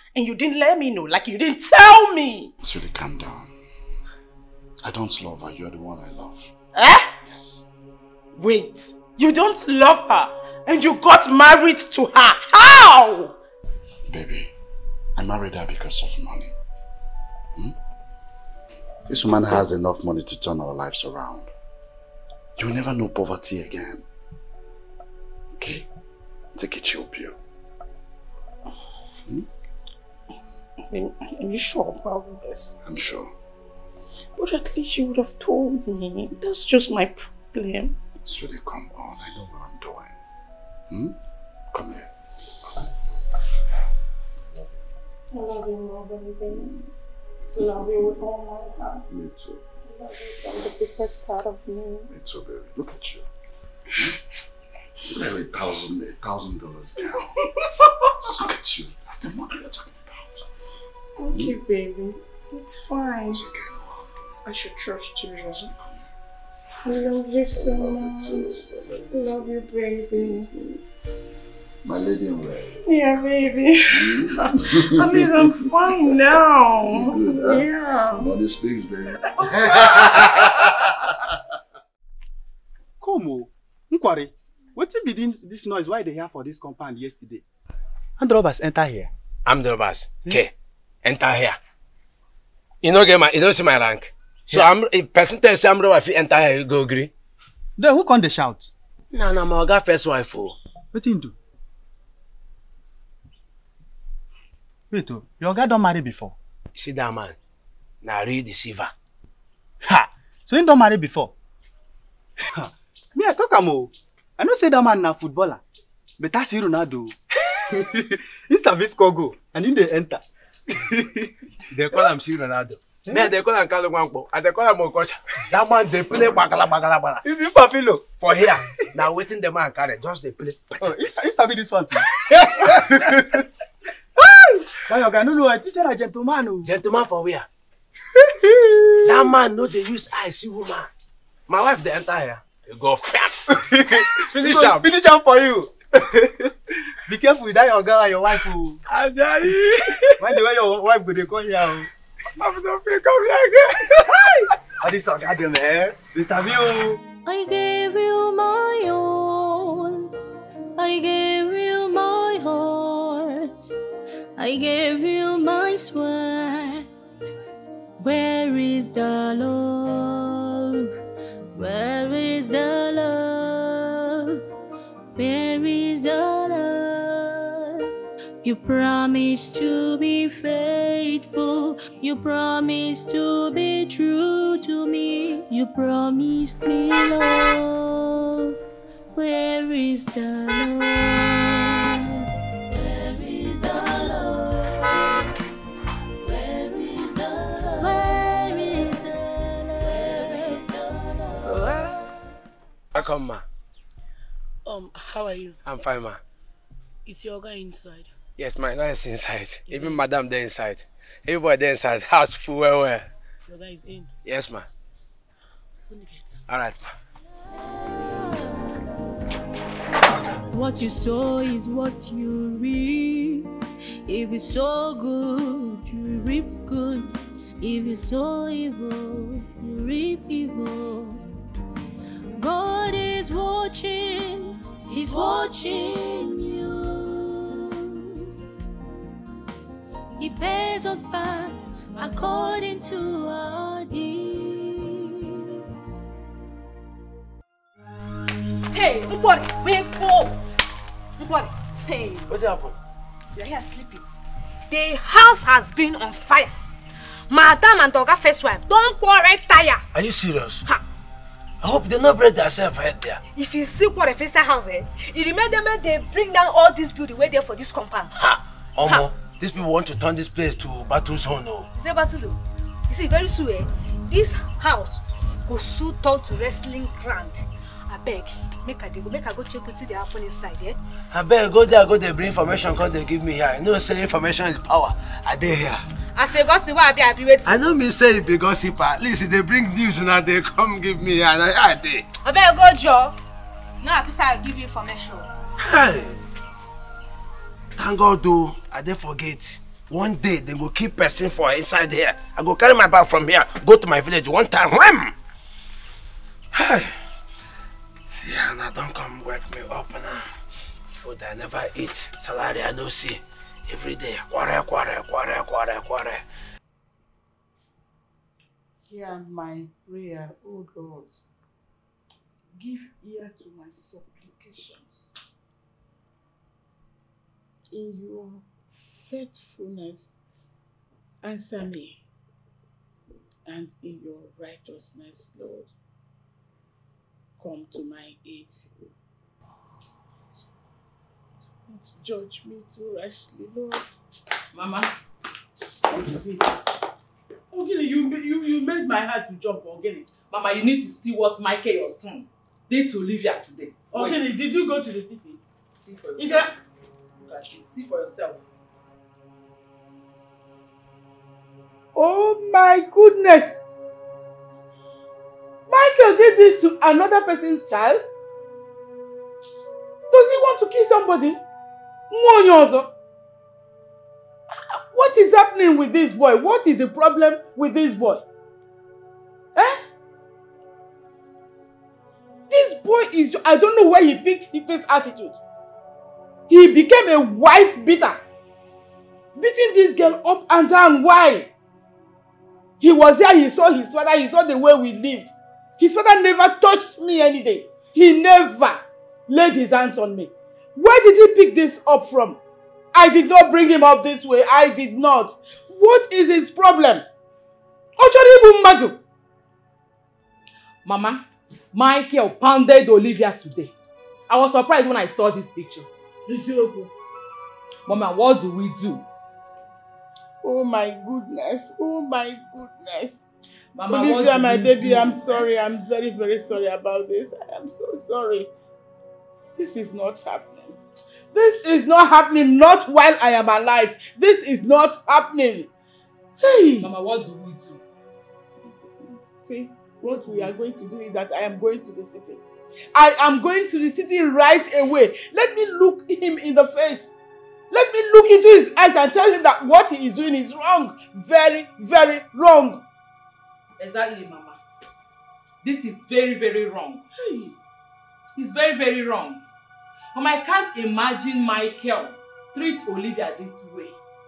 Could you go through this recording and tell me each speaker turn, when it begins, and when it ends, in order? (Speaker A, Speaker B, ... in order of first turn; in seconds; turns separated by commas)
Speaker A: 1.6-2.5, Speaker B: 2.6-3.5, Speaker B: 4.8-6.5, Speaker B: 7.2-7.7, Speaker A: 12.3-13.1, Speaker B: 14.1-14.5, Speaker B: 15.2-16.5, Speaker B: 19.1-21.5, Speaker B: 22.6-24.0, Speaker B: 25.6-25.9, Speaker B: 26.5-27.4, Speaker A: 31.5-32.7, Speaker B: 32.8-33.3, Speaker A: 36.3-36.9, Speaker B: 38.2-40.2, Speaker B: 40.9-41.2, Speaker B: 41.7-42.1, Speaker B: 42.6-42.9, Speaker B: 49.1-49.6, Speaker A: 50.0-52.0, Speaker B: 52.1-53.3, Speaker B: 55.0-57.3, Speaker B: 58.2-60.5, Speaker A: 61.3-63.4, Speaker B: 61.3-61.5, Speaker B: 63.3-64.4, Speaker A: 64.5-65.3, Speaker B: 65.3-66.1, Speaker A: 66.9-68.4, Speaker B: 67.5-69.4, Speaker A: 69.4-70.5, Speaker B: 71.8-72.8, Speaker A: 72.9-73.6, Speaker B: 73.9-81.3, Speaker A: 75.0-76.6, Speaker A: 79.9-80.2, Speaker C: 83.0-87.4, Speaker C: 88.2-89.1, Speaker D: 89.5-90.5, Speaker D: 91.0-91.6, Speaker D: 92.8-97.1, Speaker C: 97.8-98.7, Speaker D: 99.1-100.6, Speaker C: 100.9-101.3, Speaker C: 104.9-106.3, Speaker D: 106.7-107.3, Speaker D: 108.0-108.9, Speaker C: 109.9-111.3, Speaker C: 112.5-115.6, Speaker C: 116.2-117.1, Speaker C: 117.7-120.2, Speaker C: 120.8-121.3, Speaker D: 121.7-127.2, Speaker C: 123.1-123.3, Speaker C: 127.2-128.2, Speaker D: 128.1-130.8, Speaker C: 130.8-132.0, Speaker D: 132.3-132.9, Speaker C: 132.9-133.2, Speaker C: 134.3-136.7, Speaker D: 136.6-137.5, Speaker D: 139.0-140.9, Speaker D: 141.5-143.4, Speaker C: 143.7-145.8, Speaker D: 144.3-144.9, Speaker C: 147.1-148.8, Speaker C: 150.2-151.9, Speaker C: 154.8-157.0, Speaker E: 157.2-160.1, Speaker E: 160.8-163.7, Speaker E: 164.3-166.9, Speaker E: 168.0-170.9, Speaker E: 171.6-174.4, Speaker E: 175.2-177.9, Speaker E: 178.4-188.5, Speaker E: 189.1-192.2, Speaker E: 192.7-195.3, Speaker E: 196.2-201.5, Speaker D: 202.9-203.4, Speaker F: 204.7-205.5, Speaker D: 205.6-206.2, Speaker F: 207.1-208.1, Speaker D: 208.4-213.1, Speaker F: 213.5-214.1, Speaker D: 214.2-214.7, Speaker F: 215.9-216.3, Speaker D: 216.5-216.8, Speaker E: 218.1-218.6, Speaker E: 220.5-223.5, Speaker E: 224.1-227.1, Speaker E: 227.6-231.2, Speaker E: 232.4-238.2, Speaker E: 240.2-245.4, Speaker G: 248.7-250.4, Speaker G: 251.2-252.2, Speaker D: 252.3-252.8, Speaker G: 253.3-254.0, Speaker G: 254.7-256.5, Speaker G: 257.3-259.8, Speaker D: 259.9-260.6, Speaker D: 261.6-263.2, Speaker G: 263.3-268.1, Speaker D: 268.2-271.7, Speaker G: 271.7-280.8, Speaker D: 281.1-285.8, Speaker G: 286.1-287.6, Speaker D: 287.4-292.1, Speaker G: 292.2-293.1, Speaker G: 293.8-295.3, Speaker D: 295.6-296.1, Speaker D: 297.8-305.1, Speaker D: 306.5-306.9, Speaker D: 308.1-310.2, Speaker D: 311.0-316.2, Speaker A: 318.9-321.2, Speaker A: 322.5-325.1, Speaker A: 327.7-330.2, Speaker A: 331.2-332.0, Speaker A: 333.4-335.7, Speaker A: 337.4-338.7, Speaker A: 341.6-343.8, Speaker H: 344.5-344.9, Speaker A: 345.9-346.5, Speaker A: 347.5-350.1, Speaker H: 350.3-354.2, Speaker A: 353.9-355.4, Speaker H: 355.8-356.5, Speaker A: 356.2-356.5, Speaker H: 357.2-358.4, Speaker A: 361.9-363.6, Speaker A: 365.7-368.0, Speaker A: 370.1-371.4, Speaker A: 372.1-372.9, Speaker A: 374.5-378.2, Speaker A: 379.5-379.8, Speaker A: 382.5-385.4, Speaker A: 386.5-388.2, Speaker A: 389.4-391.5, Speaker A: 392.8-402.4, Speaker A: 402.9-407.0, Speaker A: 408.0-409.0, Speaker H: 410.8-413.7, Speaker H: 414.3-415.9, Speaker A: 416.3-416.9, Speaker H: 417.9-419.1, Speaker A: 420.4-423.3, Speaker H: 423.7-425.5, Speaker A: 423.9-428.5, Speaker A: 429.6-430.8, Speaker A: 431.3-435.7, Speaker A: 436.4-436.9, Speaker H: 436.8-437.8, Speaker A: 439.0-442.4, Speaker A: 442.9-447.1, Speaker A: 447.7-452.8, Speaker H: 453.8-454.6, Speaker H: 455.6-457.0, Speaker A: 457.2-457.5, Speaker H: 458.4-459.4, Speaker H: 460.1-464.0